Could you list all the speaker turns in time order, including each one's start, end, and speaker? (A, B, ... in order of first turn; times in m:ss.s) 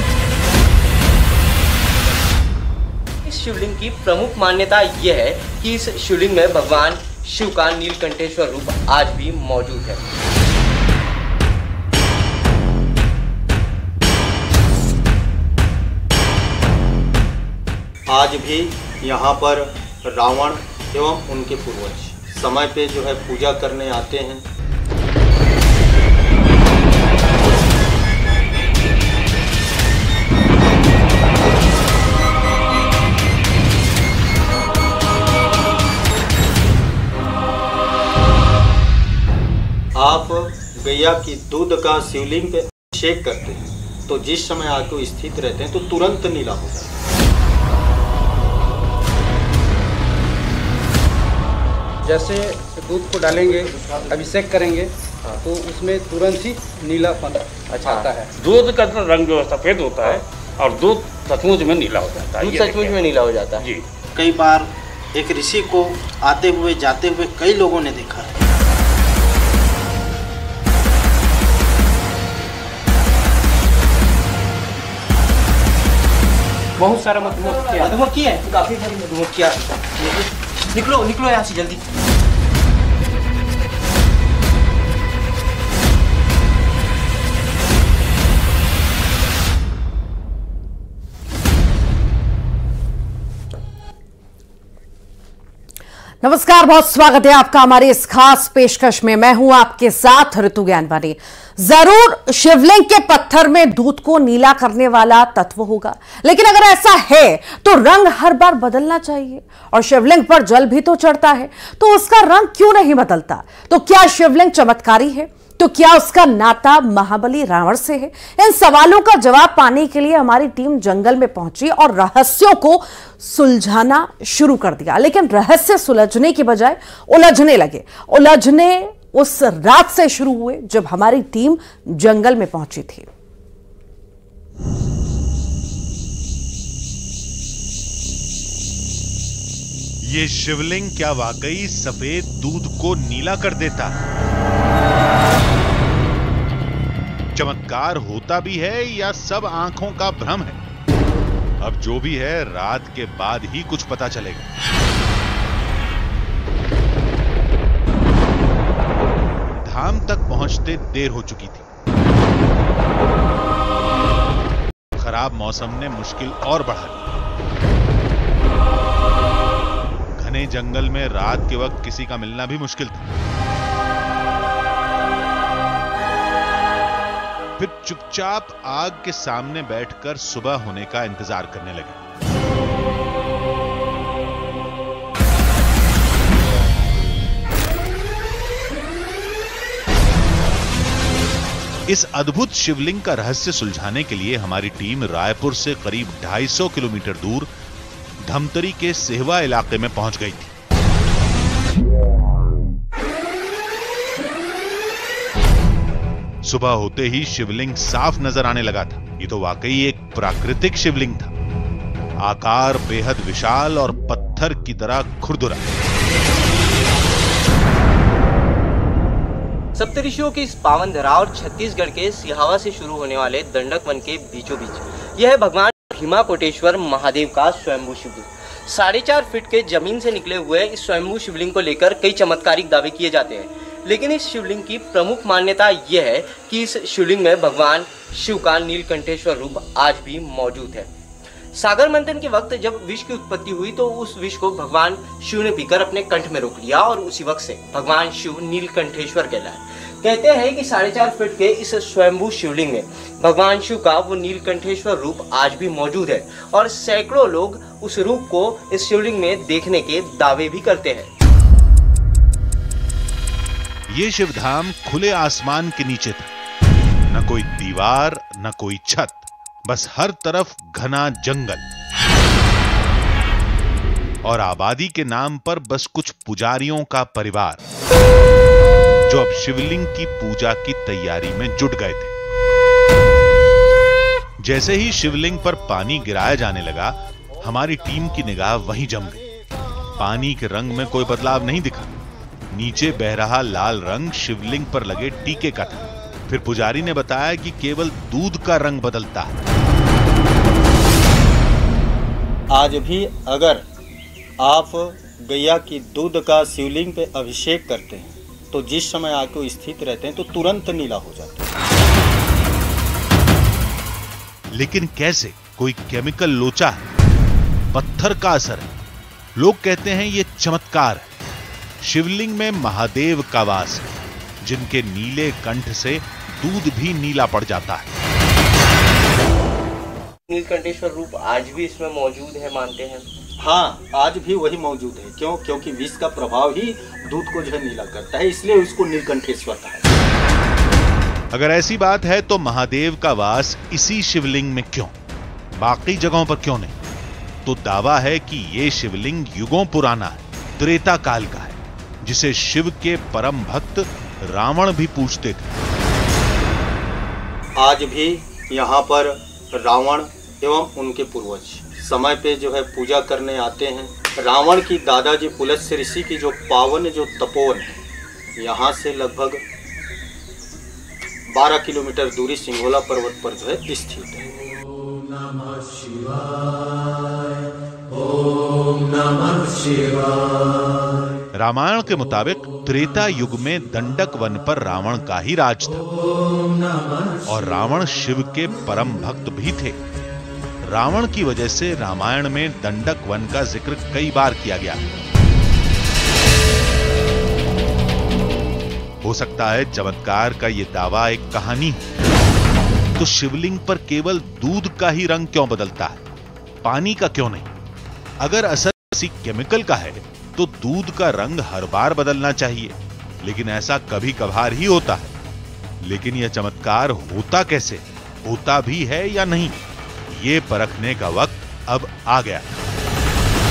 0:03.2-0:10.0 A
0:18.1-0:24.4 B
0:39.9-0:47.0 B
0:52.0-0:58.3 C
0:57.7-0:58.1 A
0:58.4-1:03.0 D
1:02.4-1:03.7 A
1:03.6-1:03.8 D
1:04.2-1:08.3 E
1:07.8-1:08.2 B
1:16.8-1:18.0 D
1:17.7-1:21.8 A
1:36.2-2:13.1 F
2:20.0-2:24.0 G
2:27.3-2:30.6 G
2:31.6-2:34.5 G
2:39.6-2:41.7 G
2:45.0-2:47.2 G
2:50.2-2:53.1 G
2:57.6-3:02.0 G
3:11.9-3:17.5 G
3:18.2-3:20.5 G
3:26.4-3:31.3 G
3:32.2-3:35.7 G
3:39.8-4:00.9 A
4:01.5-4:21.1 A
4:23.9-4:26.3 G
4:27.1-4:31.6 G
4:34.2-4:37.6 G
4:39.0-4:42.1 G
4:44.4-4:49.2 G
4:50.0-4:51.9 G
4:52.5-4:59.4 G
5:02.5-5:03.6 B
5:04.4-5:11.5 B
5:14.5-5:16.8 G
5:17.7-5:18.7 G
5:19.3-5:21.1 G
5:21.8-5:27.9 G
5:30.3-5:33.0 A
5:33.4-5:39.9 B
5:41.3-5:44.9 G
5:45.6-5:46.7 G
5:47.4-5:55.5 G
5:57.6-6:07.8 B
6:08.4-6:09.4 B
6:11.3-6:14.2 B
6:21.3-6:25.8 G
6:27.2-6:29.8 G
6:30.6-6:34.8 G
6:39.0-6:41.9 G
6:43.0-6:46.0 G
6:46.6-6:47.5 G
6:48.2-6:55.1 G
6:55.8-7:02.6 G